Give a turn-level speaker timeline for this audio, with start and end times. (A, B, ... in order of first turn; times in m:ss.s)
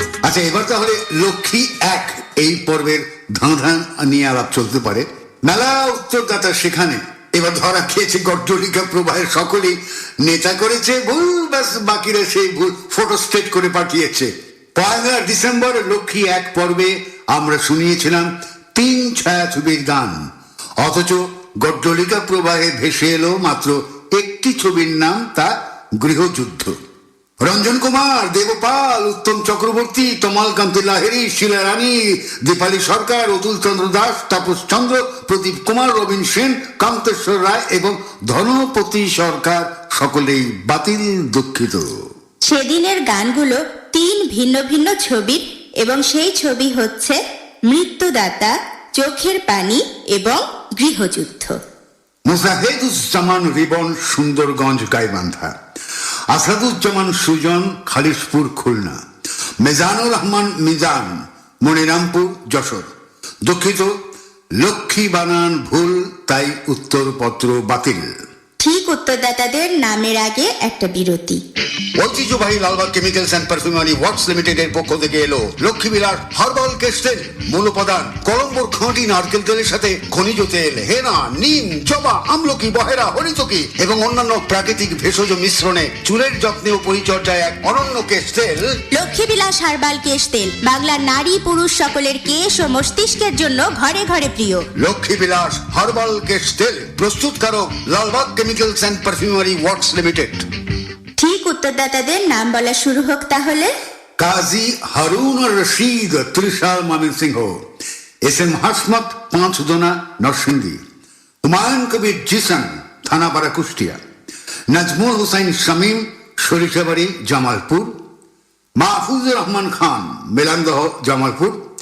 0:00.2-0:20.2 A
0:20.8-0:26.7 A
0:27.4-0:41.9 A
0:42.5-0:47.2 B
0:47.7-0:51.6 B
0:52.3-0:55.5 A
0:56.3-0:59.0 A
0:59.6-1:02.9 A
1:03.4-1:03.9 A
1:04.6-1:08.1 A
1:08.6-1:11.4 B
1:12.0-1:28.7 A
1:28.9-1:34.6 B
1:34.8-1:40.4 A
1:41.2-1:43.7 B
1:44.2-1:47.6 A
1:48.3-1:50.8 A
1:51.4-1:54.0 A
1:54.7-1:57.9 A
1:58.8-2:01.6 A